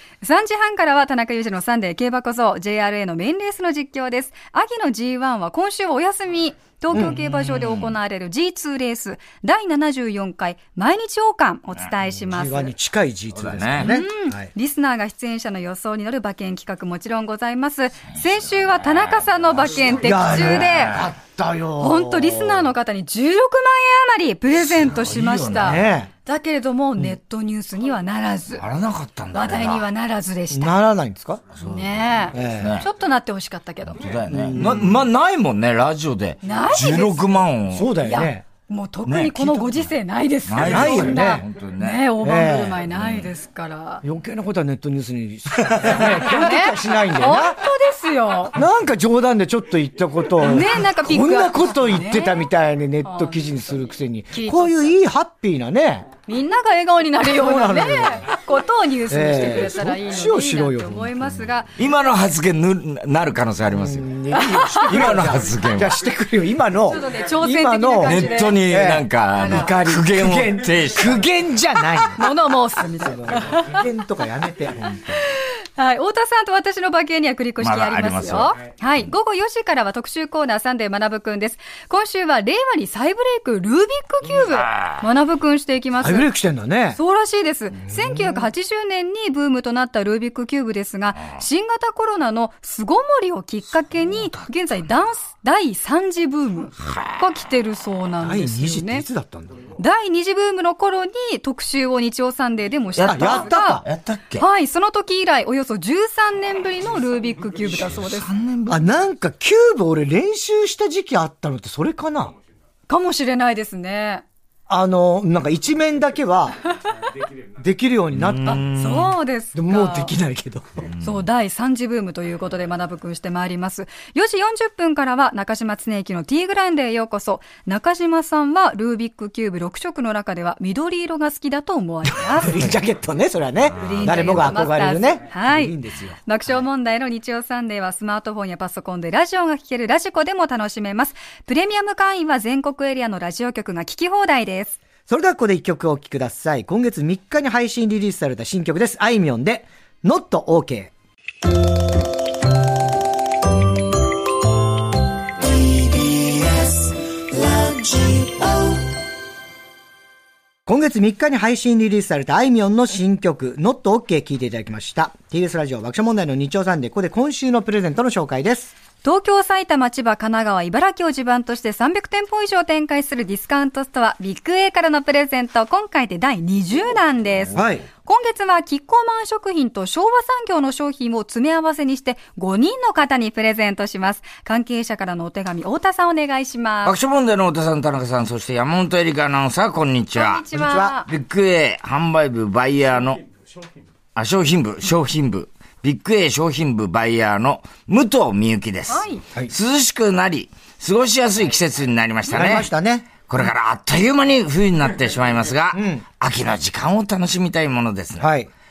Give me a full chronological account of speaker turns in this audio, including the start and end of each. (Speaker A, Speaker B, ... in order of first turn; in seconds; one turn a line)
Speaker A: 0.2-12.7
Speaker B: 6.9-7.9
Speaker C: 12.3-14.5
Speaker B: 13.3-13.9
Speaker A: 13.8-21.0
Speaker B: 18.7-21.1
Speaker C: 20.0-22.7
Speaker A: 21.8-28.6
Speaker B: 24.6-25.9
Speaker C: 25.6-26.1
Speaker B: 28.6-29.9
Speaker A: 29.3-30.8
Speaker C: 30.5-31.4
Speaker B: 31.5-32.9
Speaker A: 31.6-34.0
Speaker C: 32.3-32.8
Speaker B: 33.9-38.0
Speaker C: 34.3-35.0
Speaker A: 36.4-37.4
Speaker C: 37.7-38.4
Speaker A: 38.0-44.0
Speaker B: 39.0-39.9
Speaker B: 40.5-42.1
Speaker C: 40.6-41.4
Speaker C: 42.2-42.8
Speaker B: 42.9-43.3
Speaker C: 44.0-47.6
Speaker A: 46.2-48.5
Speaker C: 48.5-56.1
Speaker A: 50.4-52.4
Speaker A: 53.0-53.5
Speaker A: 54.3-54.9
Speaker A: 56.3-61.7
Speaker C: 57.3-58.2
Speaker C: 59.1-61.2
Speaker B: 61.8-66.0
Speaker C: 63.7-72.3
Speaker A: 64.3-65.0
Speaker A: 66.8-68.6
Speaker B: 68.0-71.3
Speaker A: 69.3-69.7
Speaker A: 72.2-73.8
Speaker C: 73.0-75.2
Speaker A: 75.3-86.3
Speaker B: 77.6-78.5
Speaker B: 84.6-85.0
Speaker C: 86.0-87.0
Speaker A: 86.9-99.0
Speaker C: 87.8-88.5
Speaker B: 94.0-94.5
Speaker C: 98.2-99.8
Speaker A: 99.8-103.8
Speaker B: 103.0-104.4
Speaker C: 103.0-103.8
Speaker A: 104.4-108.3
Speaker B: 107.8-108.8
Speaker C: 108.7-112.3
Speaker A: 112.9-114.2
Speaker C: 114.7-116.6
Speaker C: 117.6-118.6
Speaker B: 118.1-119.1
Speaker A: 118.5-120.1
Speaker C: 119.5-120.9
Speaker B: 120.9-121.2
Speaker A: 121.0-132.7
Speaker C: 132.2-136.2
Speaker A: 133.8-144.8
Speaker B: 133.8-134.4
Speaker C: 145.1-150.9
Speaker C: 157.5-158.4
Speaker C: 160.7-168.7
Speaker A: 169.0-187.0
Speaker C: 177.5-177.8
Speaker B: 186.8-193.2
Speaker A: 190.1-191.1
Speaker C: 190.5-190.9
Speaker B: 194.1-202.7
Speaker A: 198.9-199.2
Speaker C: 202.3-203.1
Speaker B: 203.2-208.3
Speaker C: 205.7-206.0
Speaker C: 208.2-208.5